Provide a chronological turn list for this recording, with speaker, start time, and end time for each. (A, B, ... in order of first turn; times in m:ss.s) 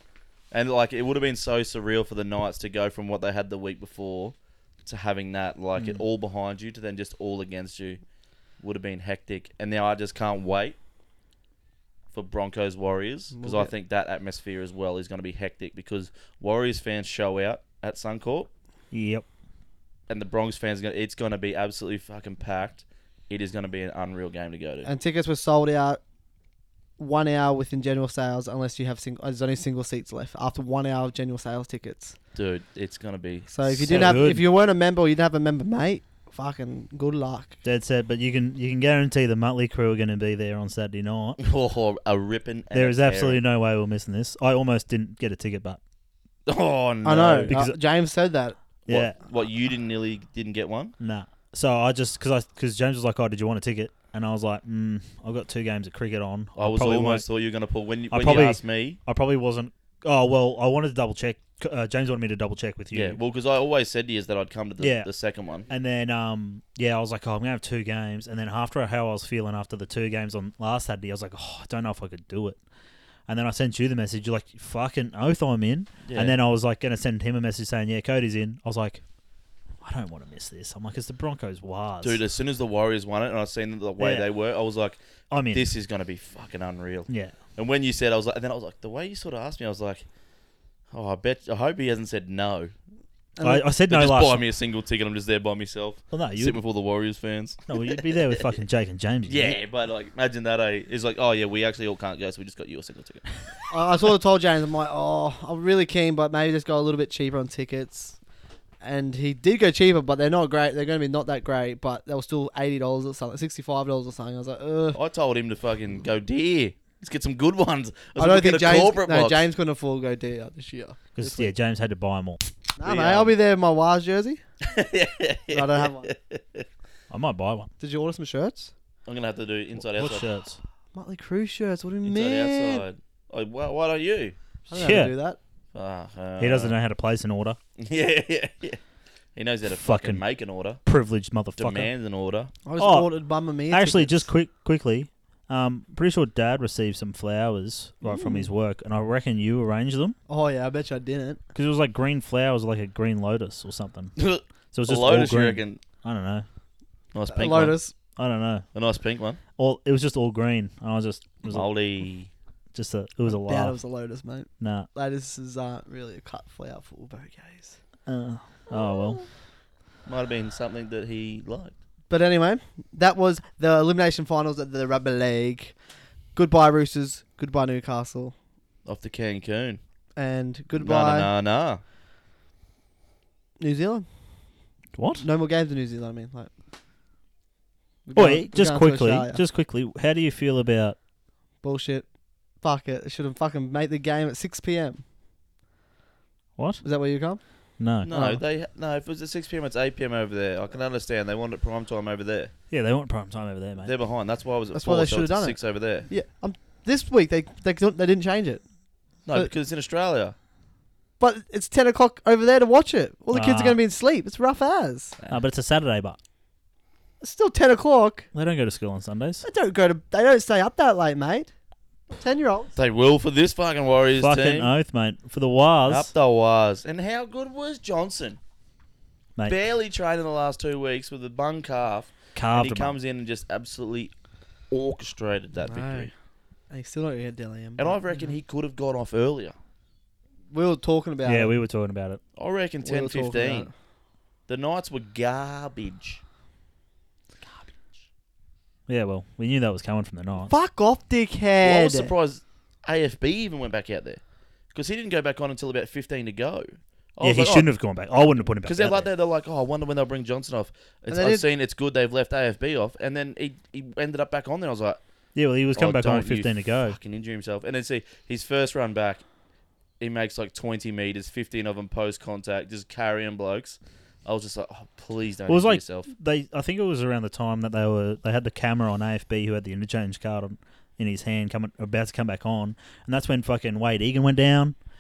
0:00.5-0:08.0 A
0:05.8-0:06.0 B
0:08.6-0:10.8 A
0:12.1-0:18.5 A
0:13.4-0:13.7 C
0:18.9-0:19.3 B
0:20.1-0:24.9 A
0:24.8-0:26.0 C
0:27.0-0:32.2 C
0:32.4-0:34.2 A
0:33.5-0:37.6 C
0:33.8-0:34.4 B
0:37.6-0:41.4 B
0:41.4-0:43.4 A
0:42.7-0:45.8 B
0:46.5-0:47.5 A
0:47.0-0:48.6 C
0:47.5-0:47.8 B
0:48.9-0:49.2 B
0:48.9-0:50.9 A
0:51.0-0:57.2 B
0:56.6-0:59.0 A
0:58.1-1:03.2 B
1:02.9-1:05.7 A
1:04.8-1:05.1 B
1:05.7-1:12.6 B
1:13.3-1:19.0 B
1:16.0-1:16.4 A
1:19.8-1:22.2 B
1:22.0-1:25.0 A
1:24.0-1:24.3 B
1:25.3-1:25.7 B
1:25.5-1:30.0 A
1:27.1-1:27.4 B
1:30.9-1:32.7 A
1:33.4-1:33.6 C
1:33.4-1:34.4 B
1:33.9-1:38.6 A
1:36.1-1:36.6 B
1:37.7-1:39.6 B
1:39.3-1:43.5 A
1:43.7-1:48.2 C
1:48.8-1:55.0 C
1:54.9-1:59.5 A
1:58.2-2:01.5 C
2:01.2-2:02.4 B
2:02.8-2:04.4 C
2:02.8-2:03.3 A
2:04.6-2:06.7 A
2:05.5-2:06.1 C
2:07.1-2:07.7 B
2:07.8-2:08.7 C
2:09.1-2:10.3 A
2:09.8-2:10.6 B
2:10.9-2:12.9 C
2:12.0-2:14.4 A
2:14.7-2:15.4 C
2:14.7-2:15.1 B
2:15.7-2:16.8 A
2:16.4-2:17.6 B
2:17.8-2:18.8 A
2:19.4-2:20.8 A
2:19.7-2:20.2 B
2:20.9-2:21.9 B
2:21.6-2:22.5 A
2:22.6-2:24.3 C
2:22.8-2:23.1 B
2:23.7-2:30.2 B
2:28.0-2:28.5 C
2:30.3-2:31.4 C
2:31.6-2:34.2 B
2:34.2-2:35.8 A
2:34.7-2:36.5 B
2:37.1-2:37.8 A
2:37.3-2:37.9 C
2:38.2-2:38.7 B
2:38.7-2:39.4 A
2:39.6-2:41.7 B
2:41.5-2:42.3 A
2:42.7-2:43.8 B
2:43.4-2:47.8 C
2:44.6-2:44.9 B
2:48.1-2:49.2 B
2:48.8-2:49.2 C
2:50.1-2:51.7 A
2:52.1-2:55.8 C
2:56.4-2:58.4 C
2:58.9-2:59.8 A
3:00.2-3:01.3 C
3:00.8-3:01.8 A
3:03.6-3:04.1 C
3:04.9-3:05.2 B
3:05.2-3:06.5 C
3:08.1-3:09.4 C
3:08.2-3:11.0 B
3:11.6-3:12.1 C
3:12.6-3:15.0 C
3:16.6-3:16.8 B
3:16.8-3:17.4 C
3:17.8-3:18.1 B
3:18.0-3:22.5 A
3:18.0-3:18.4 C
3:22.7-3:23.9 B
3:23.8-3:26.1 A
3:24.7-3:28.6 C
3:29.3-3:30.4 A
3:31.2-3:35.2 C
3:33.3-3:33.8 B
3:35.3-3:36.2 B
3:37.2-3:38.3 C
3:38.3-3:39.4 B
3:39.4-3:41.5 C
3:42.1-3:42.7 C
3:42.8-3:44.7 A
3:44.2-3:46.1 B
3:45.9-3:48.4 A
3:49.4-3:54.1 A
3:52.4-3:53.0 B
3:54.7-3:56.1 A
3:55.6-3:56.1 C
3:56.7-3:58.3 C
3:57.8-3:59.5 A
4:00.5-4:01.6 C
4:01.2-4:02.2 B
4:02.4-4:03.7 A
4:02.8-4:03.7 C
4:04.5-4:06.2 A
4:08.9-4:10.5 B
4:10.5-4:12.1 C
4:11.6-4:14.2 A
4:14.7-4:17.7 A
4:17.2-4:19.1 B
4:18.6-4:25.0 A
4:21.1-4:21.5 C
4:25.4-4:27.0 B
4:25.8-4:29.2 A
4:30.0-4:36.1 A
4:35.5-4:44.8 B